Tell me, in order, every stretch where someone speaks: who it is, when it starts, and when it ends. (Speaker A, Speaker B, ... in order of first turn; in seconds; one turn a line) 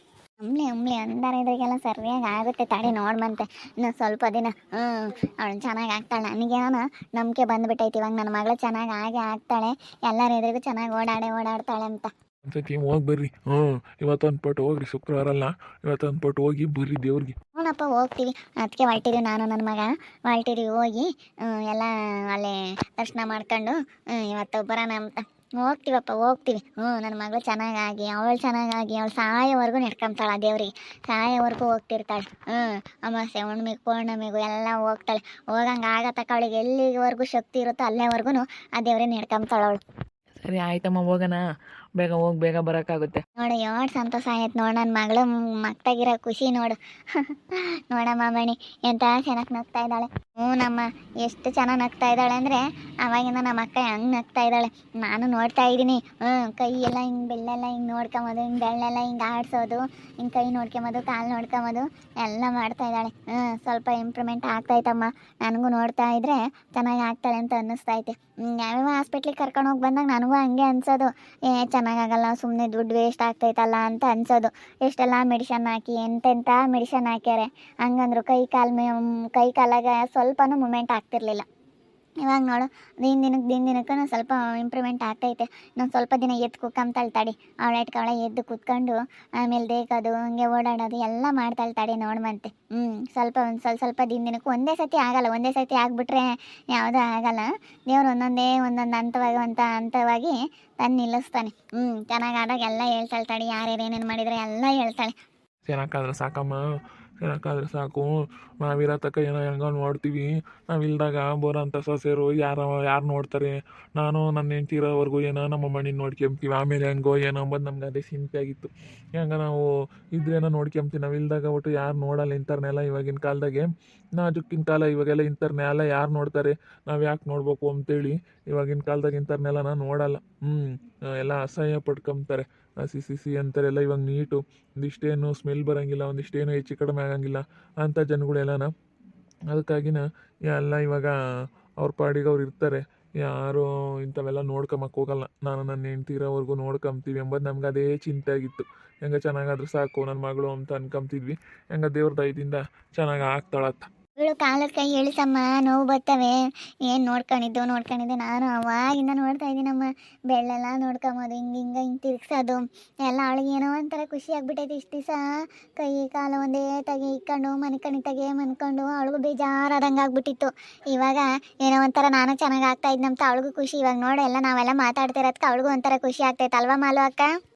Speaker A: 0.4-12.1
Speaker B: 12.4-17.4
Speaker A: 17.6-39.8
Speaker C: 40.4-41.4
Speaker C: 42.0-43.2
Speaker A: 43.4-81.4
Speaker A: 82.2-105.1
Speaker B: 105.7-106.6
Speaker B: 107.2-119.6
Speaker B: 120.1-138.7
Speaker B: 139.5-141.1
Speaker B: 141.8-153.9
Speaker A: 154.2-165.2
Speaker A: 165.8-177.3